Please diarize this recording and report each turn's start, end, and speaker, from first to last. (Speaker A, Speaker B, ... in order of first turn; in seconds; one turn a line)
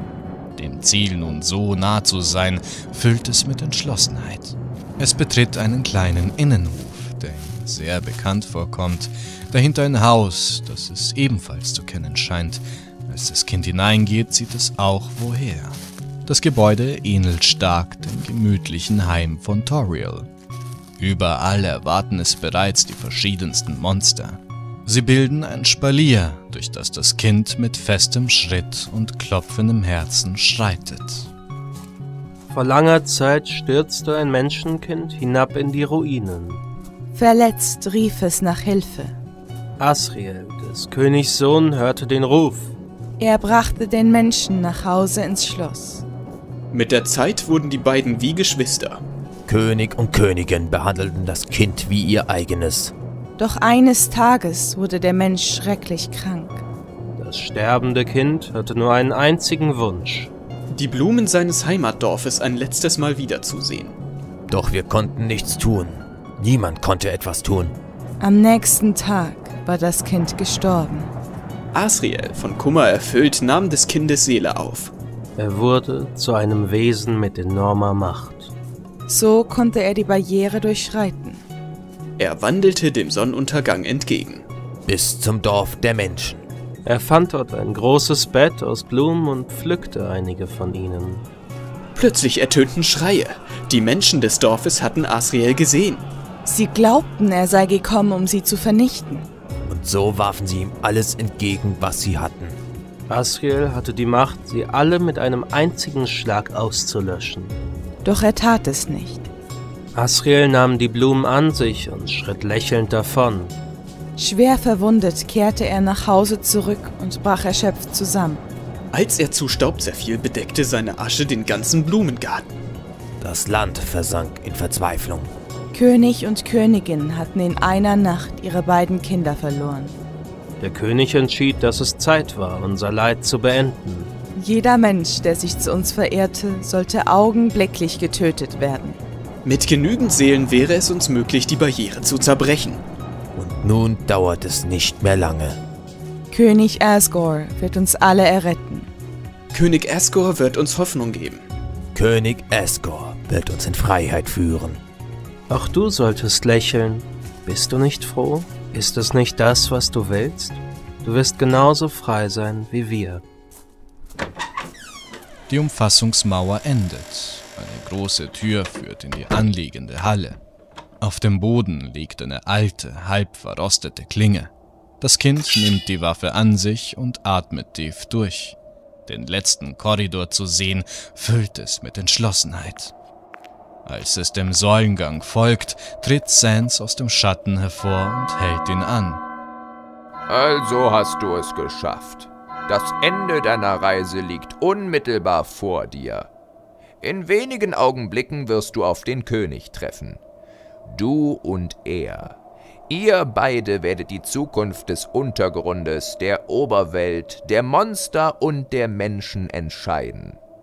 Speaker A: 0.6-20.3
Speaker A: 21.0-31.3
Speaker B: 32.5-36.6
Speaker C: 37.1-39.2
Speaker B: 39.8-42.7
Speaker C: 43.2-46.0
Speaker D: 46.7-49.0
Speaker E: 49.5-52.9
Speaker C: 53.4-56.6
Speaker B: 57.2-60.3
Speaker D: 60.7-64.0
Speaker E: 64.5-67.8
Speaker C: 68.2-71.1
Speaker D: 71.7-74.9
Speaker B: 75.4-78.5
Speaker C: 79.1-81.4
Speaker D: 82.2-84.5
Speaker E: 84.9-86.5
Speaker B: 86.8-91.3
Speaker D: 92.0-96.1
Speaker C: 96.5-99.3
Speaker E: 99.7-102.6
Speaker B: 103.1-107.6
Speaker C: 108.0-109.3
Speaker B: 110.0-113.5
Speaker C: 114.2-118.5
Speaker D: 118.9-122.5
Speaker E: 123.2-125.3
Speaker C: 125.7-129.9
Speaker B: 130.6-134.1
Speaker C: 134.3-139.0
Speaker D: 139.4-142.8
Speaker E: 143.4-145.6
Speaker C: 146.3-148.9
Speaker D: 149.5-151.4
Speaker E: 151.9-154.8
Speaker B: 155.5-163.2
Speaker A: 165.5-170.4
Speaker A: 171.0-182.9
Speaker A: 183.9-189.2
Speaker F: 190.3-196.3
Speaker F: 197.0-200.2
Speaker F: 200.9-202.4
Speaker F: 202.9-210.4